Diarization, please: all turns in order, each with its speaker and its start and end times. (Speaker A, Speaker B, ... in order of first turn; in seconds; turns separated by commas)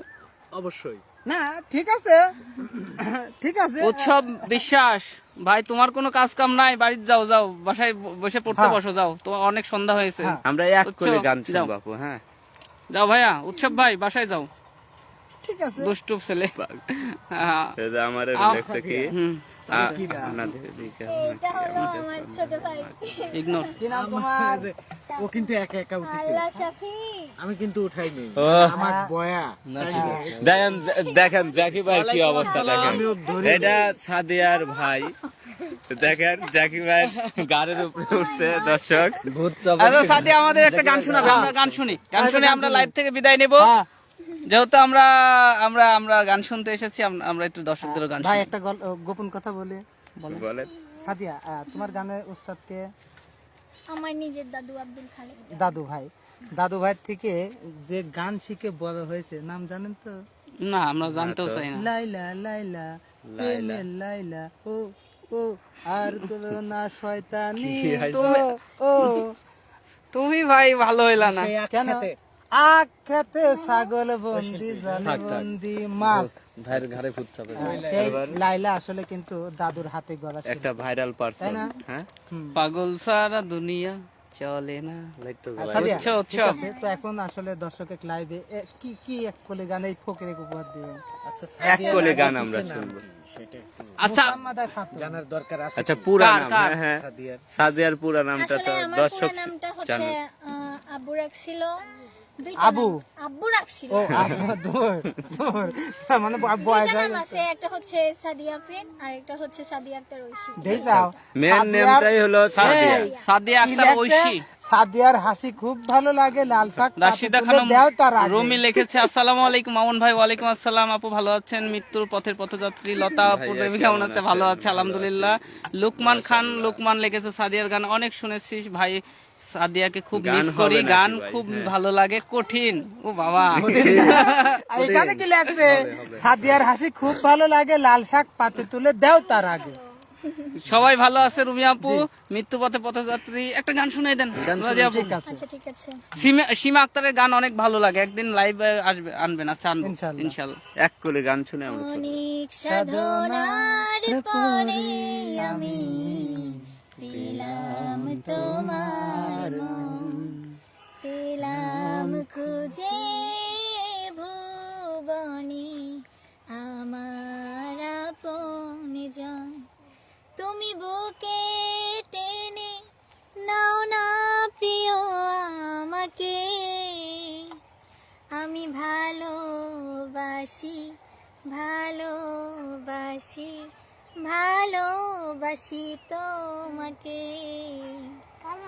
Speaker A: 0.5-1.0, Speaker B: 1.2-4.6, Speaker C: 3.8-11.7, Speaker B: 8.5-8.8, Speaker D: 10.4-12.2, Speaker C: 12.9-14.5, Speaker B: 15.4-15.9, Speaker C: 15.8-16.5, Speaker C: 17.1-17.7, Speaker D: 17.8-19.1, Speaker C: 18.4-20.0, Speaker A: 18.7-19.0, Speaker D: 19.7-22.9, Speaker A: 19.9-20.3, Speaker E: 21.0-23.7, Speaker C: 23.3-23.7, Speaker B: 23.8-24.7, Speaker A: 23.9-26.4, Speaker E: 25.1-27.3, Speaker A: 27.4-30.8, Speaker D: 28.4-28.8, Speaker B: 28.7-29.1, Speaker D: 29.7-35.1, Speaker B: 29.8-30.3, Speaker E: 30.8-31.4, Speaker A: 31.7-33.8, Speaker D: 35.9-39.2, Speaker A: 39.2-41.3, Speaker C: 39.8-43.7, Speaker D: 40.6-41.5, Speaker B: 41.2-41.5, Speaker B: 42.1-42.9, Speaker B: 43.6-43.8, Speaker C: 44.5-48.5, Speaker B: 47.8-50.4, Speaker D: 50.3-50.7, Speaker B: 51.0-52.8, Speaker E: 53.9-55.8, Speaker B: 55.5-60.1, Speaker C: 60.6-61.8, Speaker D: 61.1-61.6, Speaker B: 61.7-69.3, Speaker D: 63.2-63.8, Speaker D: 67.6-68.3, Speaker C: 68.1-68.4, Speaker C: 70.1-71.5, Speaker A: 71.2-72.2, Speaker B: 71.7-76.3, Speaker A: 74.3-75.5, Speaker A: 76.1-78.2, Speaker D: 76.7-78.4, Speaker B: 77.5-80.7, Speaker D: 80.5-82.1, Speaker B: 81.4-81.7, Speaker B: 82.3-82.6, Speaker C: 82.6-85.1, Speaker D: 85.2-86.0, Speaker B: 85.6-91.0, Speaker C: 85.7-86.6, Speaker E: 86.4-87.0, Speaker A: 91.2-93.9, Speaker E: 91.6-92.2, Speaker D: 91.8-93.0, Speaker C: 94.0-94.4, Speaker B: 94.0-95.2, Speaker A: 94.9-96.2, Speaker D: 95.8-100.1, Speaker C: 96.2-96.8, Speaker A: 96.8-97.4, Speaker E: 98.3-101.7, Speaker E: 102.4-104.1, Speaker B: 102.6-102.9, Speaker B: 103.9-107.4, Speaker E: 106.6-111.2, Speaker B: 110.6-113.1, Speaker D: 110.7-113.1, Speaker E: 112.5-113.2, Speaker C: 112.5-114.4, Speaker B: 113.6-118.6, Speaker C: 117.0-129.0, Speaker D: 123.2-125.4, Speaker D: 126.0-126.8, Speaker C: 129.5-134.6, Speaker D: 130.1-131.7, Speaker D: 133.6-136.2, Speaker B: 133.6-139.8, Speaker E: 140.2-140.6, Speaker C: 140.6-145.1, Speaker B: 144.4-145.4, Speaker E: 145.3-146.1, Speaker C: 146.1-150.6, Speaker B: 149.8-150.3, Speaker D: 150.8-152.2, Speaker E: 151.7-160.3, Speaker B: 152.7-156.6, Speaker D: 157.1-158.5, Speaker B: 158.3-160.2, Speaker E: 161.0-169.7, Speaker E: 170.4-172.8, Speaker E: 173.4-177.6, Speaker E: 178.3-180.9, Speaker E: 181.5-183.7, Speaker E: 184.2-188.2